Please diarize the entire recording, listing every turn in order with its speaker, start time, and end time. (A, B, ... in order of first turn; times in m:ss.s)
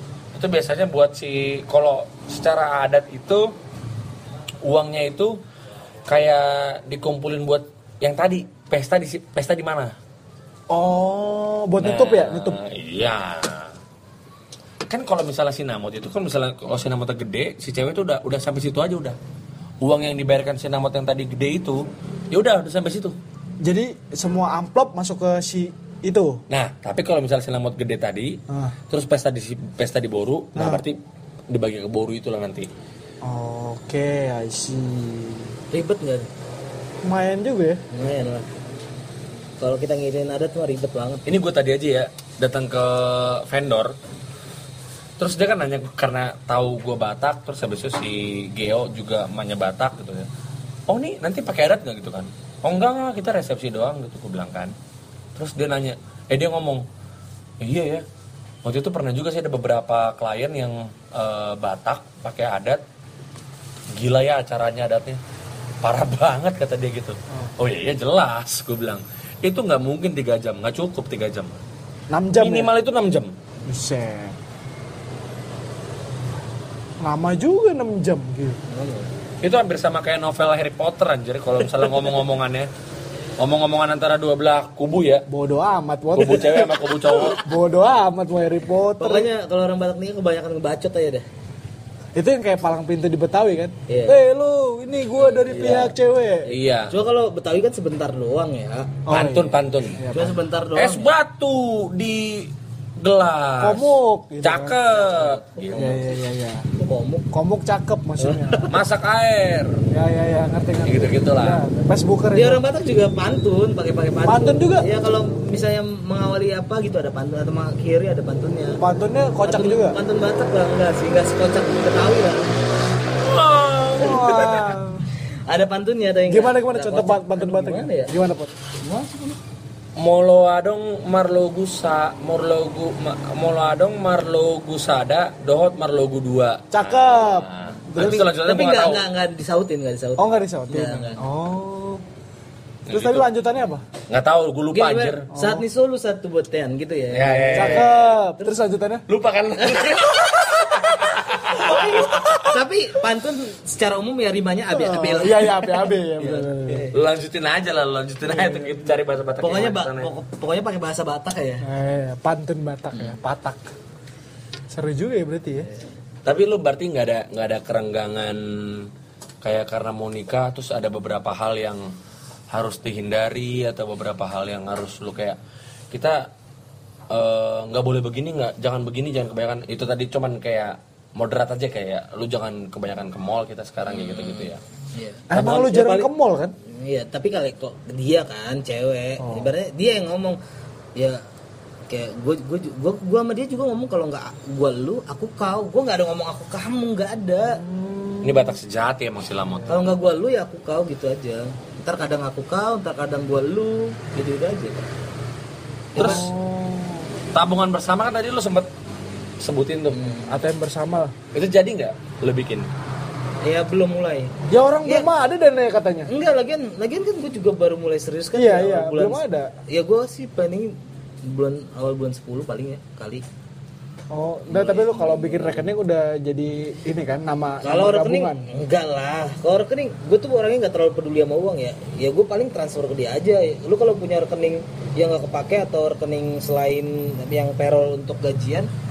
0:00.3-0:03.5 A
0:04.6-0:05.4 A
0:06.1-0:09.9 A
0:10.7-0:12.6 B
0:11.8-0:13.7 A
0:14.9-0:19.2 A
0:19.8-0:23.2 A
0:23.6-0:26.4 B
0:26.5-0:28.4 A
0:28.5-0:28.8 B
0:28.9-0:31.0 A
0:30.6-0:30.8 B
0:31.5-0:32.7 A
0:33.2-0:35.6 B
0:35.7-0:36.3 C
0:37.0-0:37.8 B
0:37.9-0:38.5 C
0:39.6-0:41.3 C
0:41.2-0:43.9 A
0:45.2-0:50.3 A
0:50.9-0:54.7 A
0:55.3-0:56.8 A
0:57.6-0:58.0 A
0:58.6-1:02.8 A
1:03.9-1:05.2 A
1:05.8-1:11.6 A
1:12.1-1:12.7 B
1:12.4-1:13.3 A
1:13.6-1:14.4 B
1:17.0-1:18.6 B
1:18.7-1:19.1 C
1:19.4-1:22.7 A
1:23.4-1:25.2 A
1:25.3-1:29.3 B
1:26.1-1:27.4 A
1:29.0-1:31.2 C
1:32.1-1:36.5 B
1:33.9-1:34.2 C
1:35.5-1:35.9 C
1:36.4-1:36.9 A
1:36.9-1:38.9 C
1:39.1-1:40.4 B
1:39.1-1:40.0 A
1:40.1-1:41.1 C
1:40.8-1:43.9 A
1:43.6-1:44.8 B
1:44.4-1:46.0 A
1:45.0-1:46.0 C
1:45.8-1:46.7 B
1:46.8-1:47.3 C
1:47.3-1:48.7 B
1:48.2-1:48.7 C
1:48.7-1:49.7 A
1:49.9-1:52.6 B
1:50.8-1:51.6 A
1:52.3-1:58.8 C
1:54.2-1:54.9 B
1:58.8-2:00.0 B
1:59.4-2:02.5 C
2:03.2-2:04.6 A
2:04.0-2:05.0 B
2:04.0-2:04.5 C
2:05.5-2:08.1 C
2:06.3-2:08.5 B
2:08.8-2:09.4 C
2:10.0-2:19.0 A
2:16.7-2:18.2 B
2:18.0-2:21.2 C
2:20.2-2:22.0 B
2:22.9-2:23.3 A
2:22.9-2:23.8 B
2:24.1-2:25.2 A
2:24.7-2:28.5 C
2:25.3-2:25.6 B
2:27.1-2:28.0 A
2:27.5-2:29.0 B
2:29.1-2:32.5 A
2:29.6-2:30.0 C
2:31.5-2:36.9 C
2:34.7-2:36.8 B
2:36.9-2:40.1 A
2:39.4-2:41.6 C
2:41.6-2:43.7 B
2:44.7-2:45.7 B
2:46.2-2:48.9 A
2:49.4-2:51.9 A
2:52.5-2:55.4 A
2:55.9-2:56.3 A
2:57.1-3:04.6 A
3:03.9-3:06.1 C
3:05.3-3:06.5 B
3:06.7-3:10.4 C
3:09.2-3:09.5 B
3:11.9-3:17.6 C
3:17.4-3:18.5 B
3:18.2-3:19.8 A
3:19.7-3:24.8 C
3:25.9-3:26.2 C
3:26.0-3:27.1 B
3:26.0-3:26.2 A
3:27.3-3:28.7 A
3:29.4-3:30.0 A
3:29.9-3:30.3 C
3:30.2-3:31.1 B
3:31.3-3:32.7 A
3:33.4-3:34.3 C
3:34.5-3:36.1 B
3:36.1-3:43.2 C
3:38.3-3:39.5 B
3:44.1-3:48.5 B
3:44.5-3:45.6 C
3:47.6-3:58.7 C